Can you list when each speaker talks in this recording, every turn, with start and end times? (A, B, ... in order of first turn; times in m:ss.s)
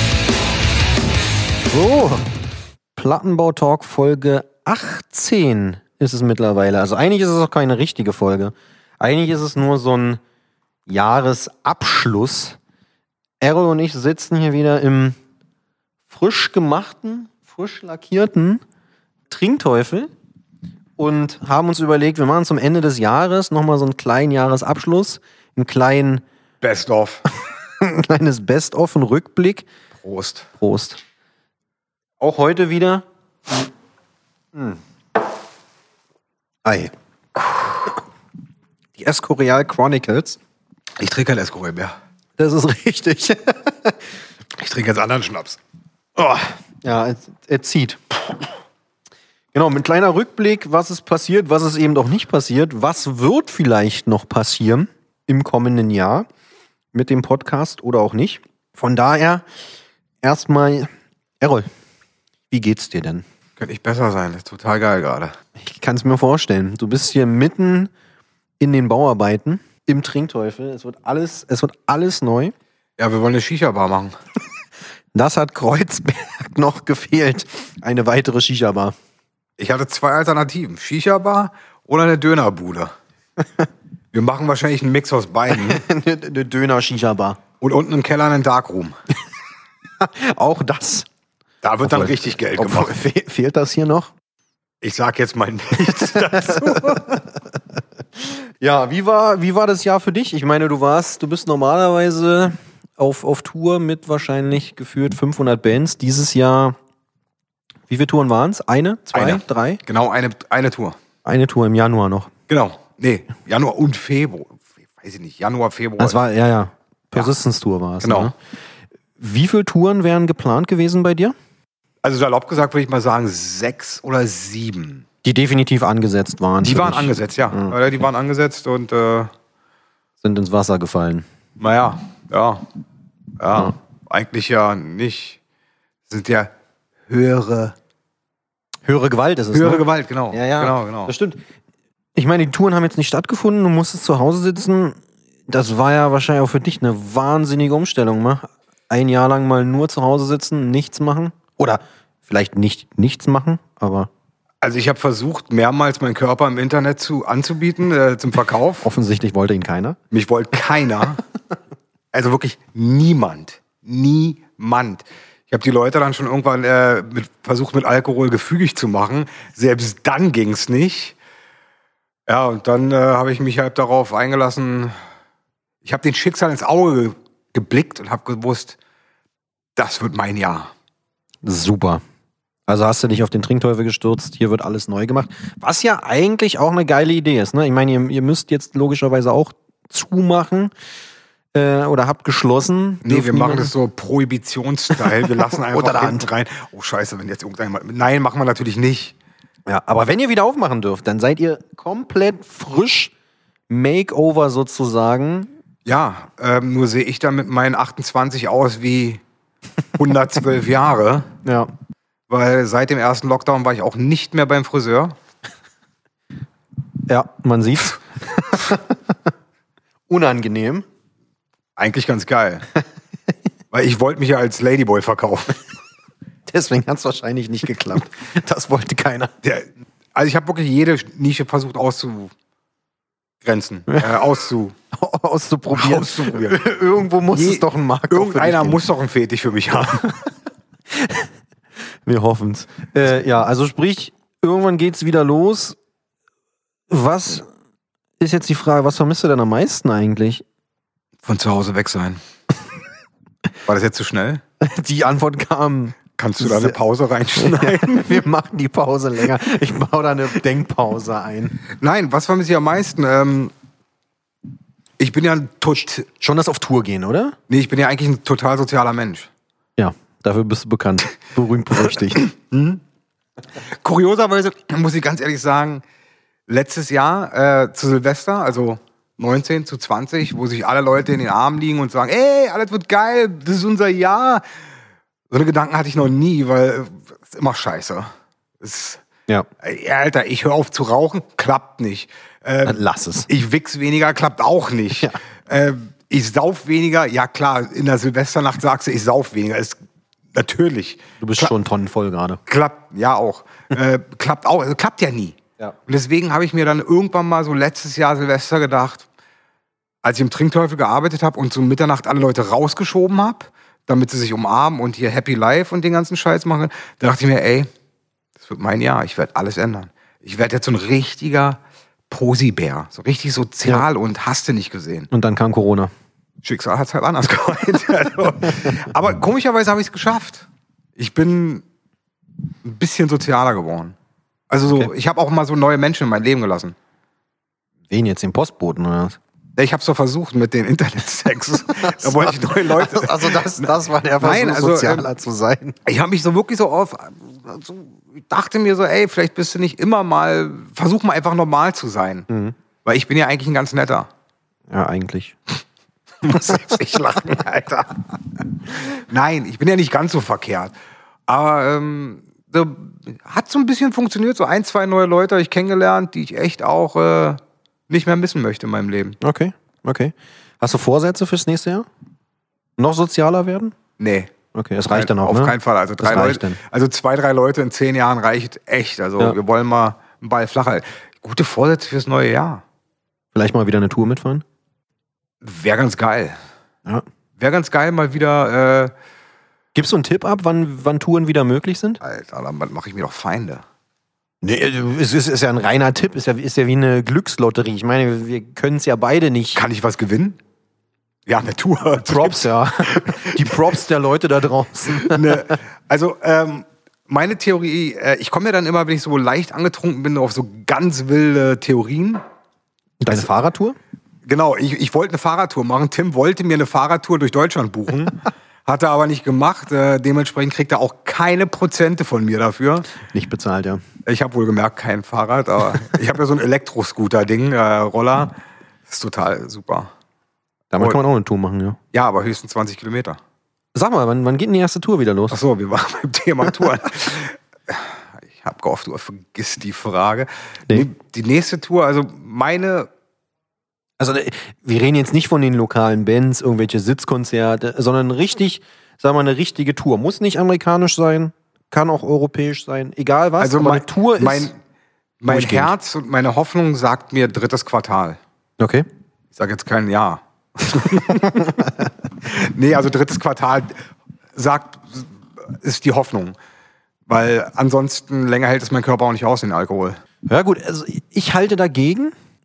0:01.7-0:02.2 A
0:03.0-0:10.2 A
0:10.9-0:12.6 A
0:13.4-0:15.2 A
0:16.1-0:18.6 A
0:19.3-0:20.1 A
0:21.0-0:26.2 A
0:26.6-0:27.2 B
0:27.8-0:29.6 A
0:30.0-0:30.5 B
0:30.6-0:31.0 A
0:32.2-0:33.0 A
0:34.5-0:34.8 A
0:36.6-0:36.9 A
0:39.0-0:40.4 A
0:41.0-0:42.0 B
0:42.4-0:44.0 A
0:44.6-0:45.6 B
0:46.2-0:48.2 A
0:49.5-0:56.3 A
0:56.9-0:59.4 A
1:00.2-1:01.7 A
1:02.5-1:03.2 A
1:03.6-1:05.3 B
1:05.6-1:07.9 A
1:08.6-1:12.5 A
1:13.0-1:14.1 B
1:15.1-1:18.9 A
1:19.6-1:22.9 B
1:24.1-1:25.8 B
1:25.5-1:27.4 A
1:27.6-1:28.9 B
1:30.0-1:31.1 A
1:31.6-1:32.9 B
1:31.8-1:34.1 A
1:34.8-1:37.0 B
1:35.8-1:37.6 A
1:38.2-1:46.8 A
1:47.9-1:49.8 A
1:49.1-1:51.0 B
1:51.2-1:52.3 A
1:52.5-1:56.2 B
1:56.0-1:58.4 A
1:58.0-1:58.3 B
1:59.2-2:01.3 A
2:02.0-2:05.0 B
2:05.2-2:07.8 A
2:06.6-2:09.3 B
2:10.2-2:11.2 A
2:11.6-2:12.6 B
2:13.4-2:15.4 B
2:16.1-2:16.5 B
2:17.1-2:17.8 B
2:18.9-2:21.4 A
2:19.5-2:21.1 B
2:22.2-2:25.0 A
2:25.5-2:34.1 A
2:34.6-2:38.9 B
2:38.8-2:40.0 A
2:40.1-2:41.2 B
2:42.1-2:51.2 B
2:52.3-2:54.9 B
2:55.8-2:58.8 B
2:59.8-3:00.7 B
3:01.4-3:02.0 A
3:02.7-3:10.7 A
3:11.5-3:13.7 A
3:13.0-3:19.1 B
3:15.0-3:16.3 A
3:19.7-3:23.1 A
3:23.7-3:25.5 A
3:25.8-3:29.2 B
3:30.0-3:31.3 B
3:31.4-3:31.7 A
3:32.3-3:35.2 B
3:37.1-3:39.0 A
3:40.1-3:40.8 A
3:41.8-3:42.6 B
3:43.7-3:45.6 B
3:46.5-3:49.3 A
3:49.4-3:52.3 B
3:53.4-3:54.7 B
3:54.9-3:58.8 A
3:55.7-3:56.6 B
3:57.3-4:00.1 B
4:00.9-4:01.3 A
4:02.0-4:05.8 A
4:06.9-4:07.4 A
4:08.2-4:10.4 A
4:11.2-4:12.2 B
4:13.6-4:14.4 B
4:14.6-4:16.7 A
4:16.2-4:18.2 B
4:17.4-4:21.6 A
4:21.7-4:23.5 B
4:25.0-4:26.1 B
4:26.2-4:27.4 A
4:27.5-4:29.3 B
4:29.8-4:32.3 A
4:32.3-4:32.8 B
4:33.7-4:35.8 B
4:36.5-4:44.4 B
4:45.3-4:48.1 B
4:48.6-4:49.0 B
4:49.6-4:59.8 B
4:52.6-4:53.3 A
5:00.3-5:01.5 B
5:01.2-5:02.4 A
5:02.5-5:09.0 B
5:10.0-5:17.7 B
5:18.4-5:25.1 B
5:25.1-5:25.9 A
5:26.4-5:31.6 B
5:32.6-5:33.9 B
5:34.5-5:36.7 B
5:37.9-5:39.2 A
5:39.6-5:45.1 B
5:41.8-5:45.8 A
5:45.8-5:52.3 B
5:52.3-5:52.5 A
5:52.8-5:54.1 B
5:54.7-5:55.4 A
5:56.2-6:00.7 B
6:01.3-6:09.2 B
6:09.2-6:11.8 A
6:12.8-6:13.7 A
6:14.0-6:14.3 B
6:14.5-6:16.6 A
6:14.9-6:22.6 B
6:23.3-6:24.4 A
6:25.4-6:26.4 B
6:27.4-6:28.9 B
6:29.7-6:32.0 A
6:32.0-6:33.6 B
6:34.4-6:39.6 A
6:39.5-6:40.4 B
6:41.2-6:43.7 B
6:42.0-6:45.5 A
6:44.9-6:52.2 B
6:53.0-6:53.8 A
6:54.2-7:02.9 B
7:03.0-7:03.8 A
7:04.0-7:08.4 B
7:08.9-7:09.9 B
7:10.7-7:11.8 A
7:11.9-7:13.2 B
7:13.7-7:15.4 A
7:15.3-7:22.9 B
7:24.0-7:34.5 A
7:33.4-7:34.6 B
7:35.2-7:38.2 B
7:35.3-7:35.7 A
7:38.6-7:38.8 A
7:39.3-7:41.7 B
7:42.2-7:43.7 B
7:44.3-7:46.4 B
7:47.1-7:50.0 B
7:50.3-7:52.1 A